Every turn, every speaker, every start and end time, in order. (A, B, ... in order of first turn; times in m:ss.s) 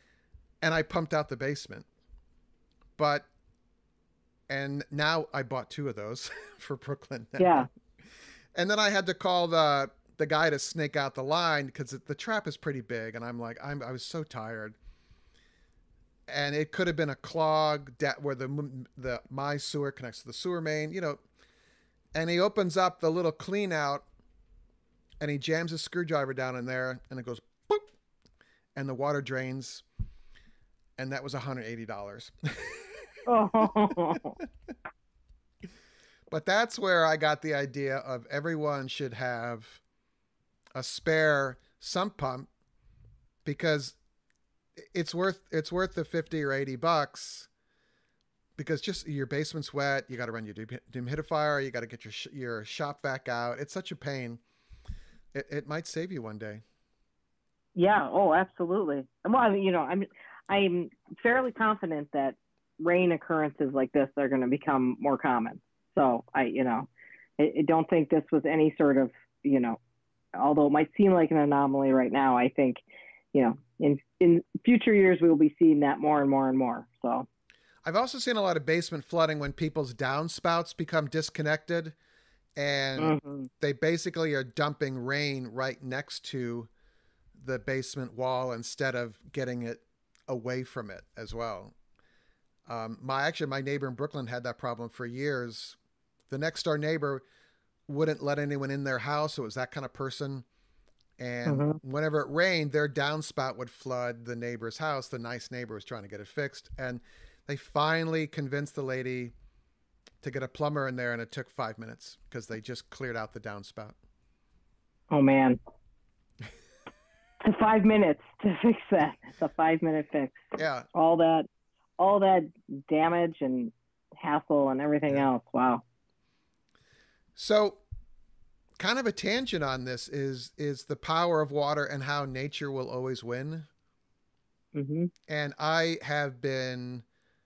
0:00.6-0:01.9 A
0:03.0-0:03.3 A
0:04.5-0:07.7 A
0:07.4-0:07.7 B
0:08.5-0:14.8 A
0:16.3-0:21.2 A
0:22.1-0:24.0 A
0:25.2-0:27.9 A
0:28.7-0:29.8 A
0:31.0-0:34.5 A
0:33.2-0:34.4 B
0:36.3-0:39.8 A
0:40.7-0:42.5 A
0:43.4-0:44.0 A
0:44.8-0:47.5 A
0:48.6-0:54.4 A
0:55.3-0:56.6 A
0:57.7-1:06.9 B
1:07.4-1:09.8 B
1:10.4-1:12.8 B
1:13.3-1:17.3 B
1:17.8-1:22.0 A
1:22.6-1:26.7 A
1:23.0-1:23.5 B
1:27.4-1:31.7 A
1:32.6-1:35.8 A
1:36.3-1:37.2 A
1:37.9-1:40.4 A
1:41.2-1:49.3 A
1:41.4-1:41.8 B
1:50.2-1:54.0 A
1:55.1-1:55.6 B
1:57.4-2:00.4 B
2:00.6-2:00.9 A
2:00.9-2:01.5 B
2:02.0-2:05.8 B
2:07.4-2:07.8 A
2:08.8-2:13.7 A
2:14.7-2:15.1 B
2:15.3-2:17.0 A